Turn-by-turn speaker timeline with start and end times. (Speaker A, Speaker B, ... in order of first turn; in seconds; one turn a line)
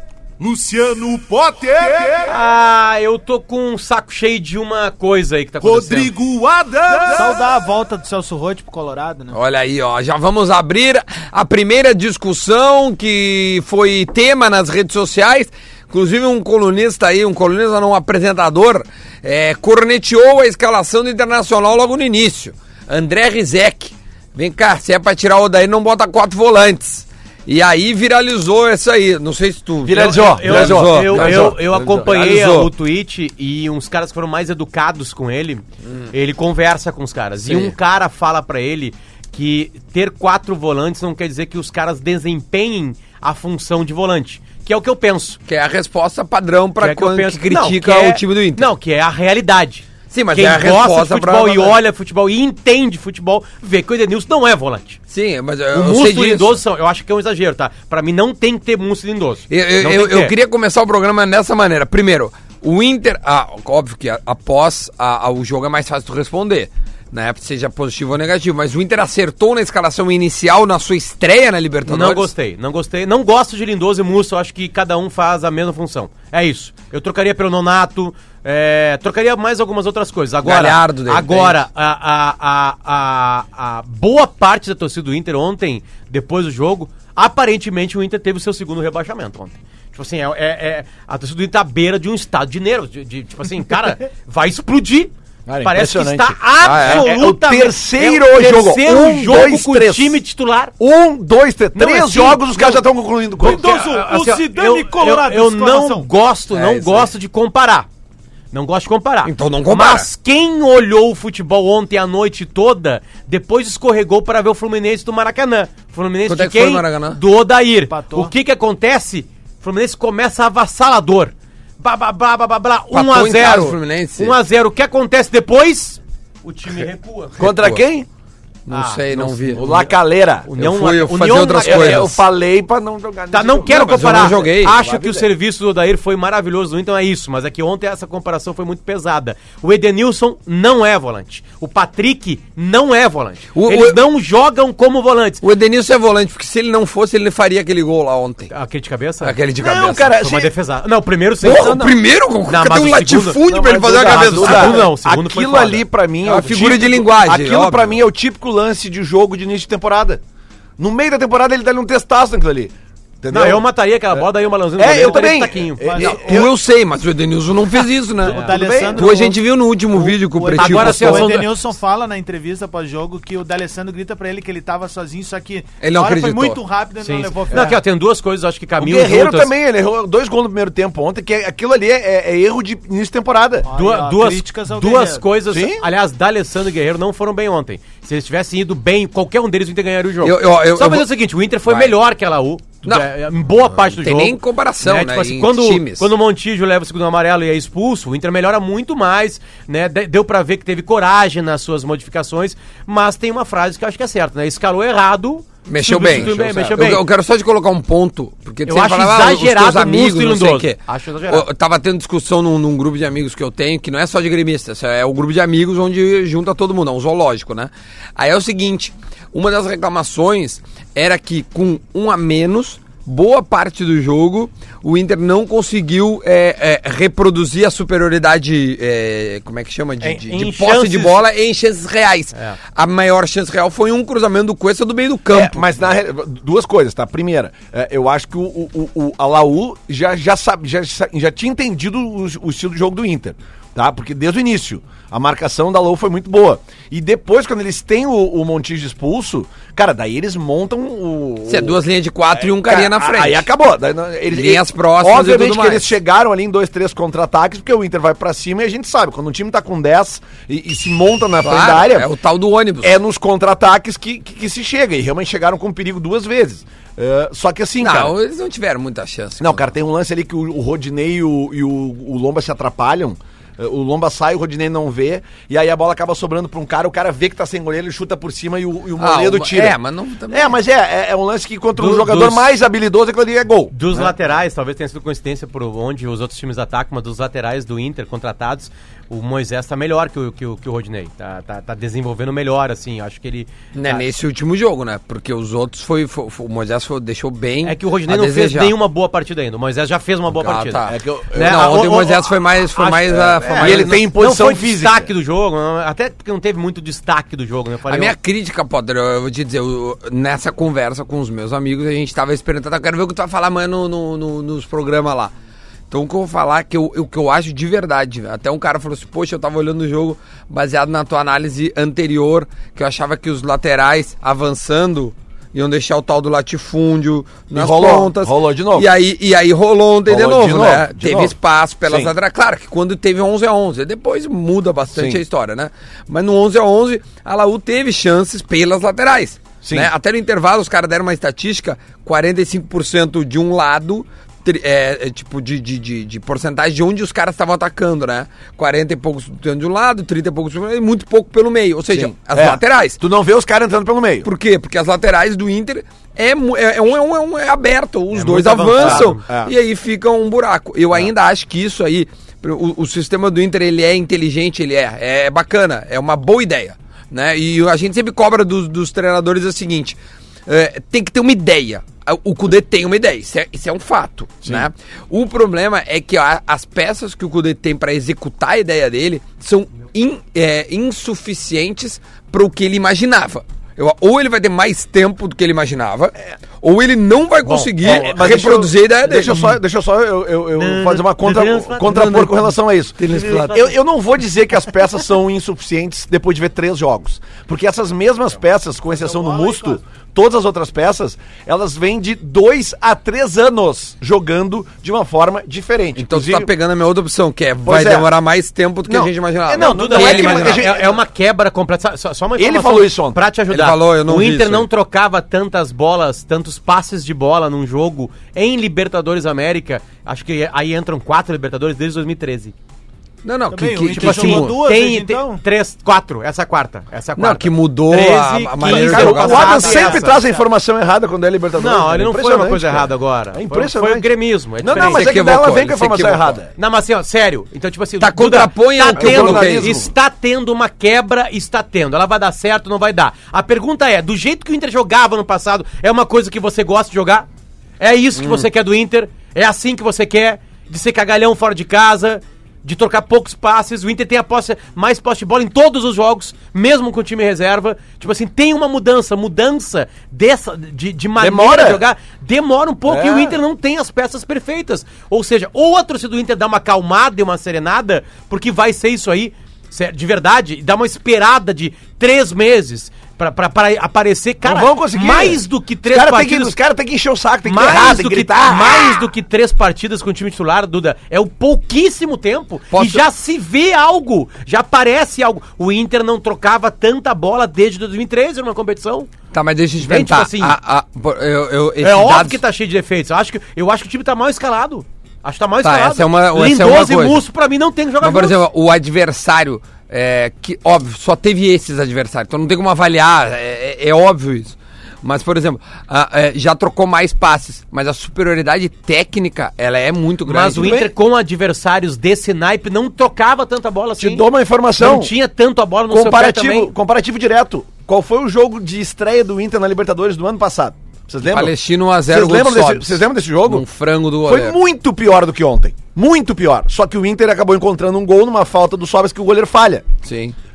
Speaker A: 0.4-1.3
Speaker B: 1.1-2.3
Speaker C: 2.2-6.2
Speaker A: 5.7-6.8
Speaker B: 6.7-9.4
Speaker D: 9.3-32.7
Speaker E: 29.8-32.6
Speaker C: 29.9-45.4
Speaker D: 37.4-37.7
Speaker D: 45.5-48.7
Speaker C: 46.8-55.0
Speaker D: 50.1-51.8
Speaker D: 55.1-56.6
Speaker C: 55.7-60.3
Speaker D: 59.5-72.3
Speaker C: 71.8-100.7
Speaker D: 80.4-81.6
Speaker E: 95.5-100.2
Speaker D: 96.6-97.1
Speaker E: 100.8-103.7
Speaker C: 101.7-102.8
Speaker C: 103.4-107.8
Speaker B: 103.4-106.1
Speaker D: 106.5-107.1
Speaker C: 108.5-127.5
Speaker D: 109.2-110.1
Speaker D: 116.3-117.2
Speaker B: 117.9-118.3
Speaker D: 122.9-124.3
Speaker E: 127.4-128.1
Speaker D: 127.4-127.8
Speaker D: 128.7-129.7
Speaker C: 128.7-129.8
Speaker E: 129.1-130.5
Speaker C: 130.4-132.2
Speaker D: 130.6-132.2
Speaker E: 131.6-135.3
Speaker C: 133.3-145.4
Speaker D: 133.7-134.7
Speaker D: 143.5-144.0
Speaker D: 145.4-148.5
Speaker C: 148.5-151.9
Speaker D: 149.2-150.1
Speaker E: 149.6-150.5
Speaker E: 151.4-151.9
Speaker D: 151.4-154.9
Speaker C: 152.5-156.4
Speaker E: 153.4-160.2
Speaker D: 156.2-158.0
Speaker E: 160.8-163.6
Speaker C: 163.3-165.8
Speaker E: 164.8-166.5
Speaker B: 165.8-166.4
Speaker D: 166.0-171.3
Speaker C: 168.2-168.6
Speaker E: 168.3-169.1
Speaker B: 168.4-169.4
Speaker B: 169.9-177.8
Speaker C: 170.6-171.5
Speaker D: 175.8-176.6
Speaker C: 177.0-179.5
Speaker E: 177.5-177.8
Speaker E: 178.8-183.7
Speaker B: 183.7-185.2
Speaker C: 183.8-207.0
Speaker E: 185.5-185.8
Speaker D: 190.2-191.1
Speaker D: 191.7-191.9
Speaker D: 193.8-196.1
Speaker D: 205.7-235.7
Speaker E: 206.0-207.0
Speaker C: 208.7-211.4
Speaker C: 230.0-231.2
Speaker E: 235.3-251.8
Speaker D: 251.5-253.4
Speaker E: 252.3-262.1
Speaker D: 254.3-255.9
Speaker D: 261.4-262.9
Speaker E: 262.8-268.1
Speaker D: 267.8-269.7
Speaker E: 269.4-279.8
Speaker D: 279.0-280.6
Speaker E: 280.3-284.1
Speaker C: 281.8-282.4
Speaker C: 283.7-294.1
Speaker D: 293.7-298.7
Speaker C: 297.6-308.1
Speaker D: 300.3-304.1
Speaker E: 300.9-301.9
Speaker E: 303.1-305.1
Speaker D: 307.9-315.3
Speaker D: 315.9-353.0
Speaker E: 327.5-328.9
Speaker E: 330.1-331.3
Speaker E: 331.9-332.1
Speaker E: 334.9-335.2
Speaker E: 339.6-339.9
Speaker E: 351.9-354.3
Speaker D: 354.2-389.4
Speaker C: 358.1-359.2
Speaker E: 358.4-359.5
Speaker C: 387.4-388.3
Speaker E: 387.8-406.5
Speaker C: 389.3-389.6
Speaker C: 390.6-392.5
Speaker D: 391.8-392.4
Speaker D: 393.0-393.6
Speaker C: 393.1-393.7
Speaker B: 398.9-399.8
Speaker D: 405.9-410.7
Speaker E: 407.6-408.1
Speaker E: 408.9-411.0
Speaker C: 409.6-422.5
Speaker E: 412.4-413.2
Speaker D: 413.5-414.7
Speaker D: 423.2-424.6
Speaker B: 423.5-425.4
Speaker C: 423.9-430.3
Speaker D: 427.2-429.8
Speaker E: 428.6-436.5
Speaker B: 429.5-430.4
Speaker C: 431.6-435.1
Speaker D: 434.7-436.4
Speaker C: 436.6-447.3
Speaker D: 438.0-439.7
Speaker E: 438.9-439.9
Speaker C: 447.8-476.6
Speaker D: 448.2-448.5
Speaker E: 461.2-461.8
Speaker E: 462.9-463.4
Speaker E: 474.4-479.0
Speaker C: 477.4-489.1
Speaker D: 482.7-483.1
Speaker D: 489.3-492.4
Speaker C: 489.8-490.6
Speaker C: 491.8-498.4
Speaker D: 495.6-497.2
Speaker D: 498.0-510.8
Speaker C: 510.2-516.7
Speaker E: 510.6-510.9
Speaker E: 514.0-515.1
Speaker E: 515.9-523.6
Speaker D: 521.2-524.6
Speaker E: 524.2-529.9
Speaker D: 530.0-530.3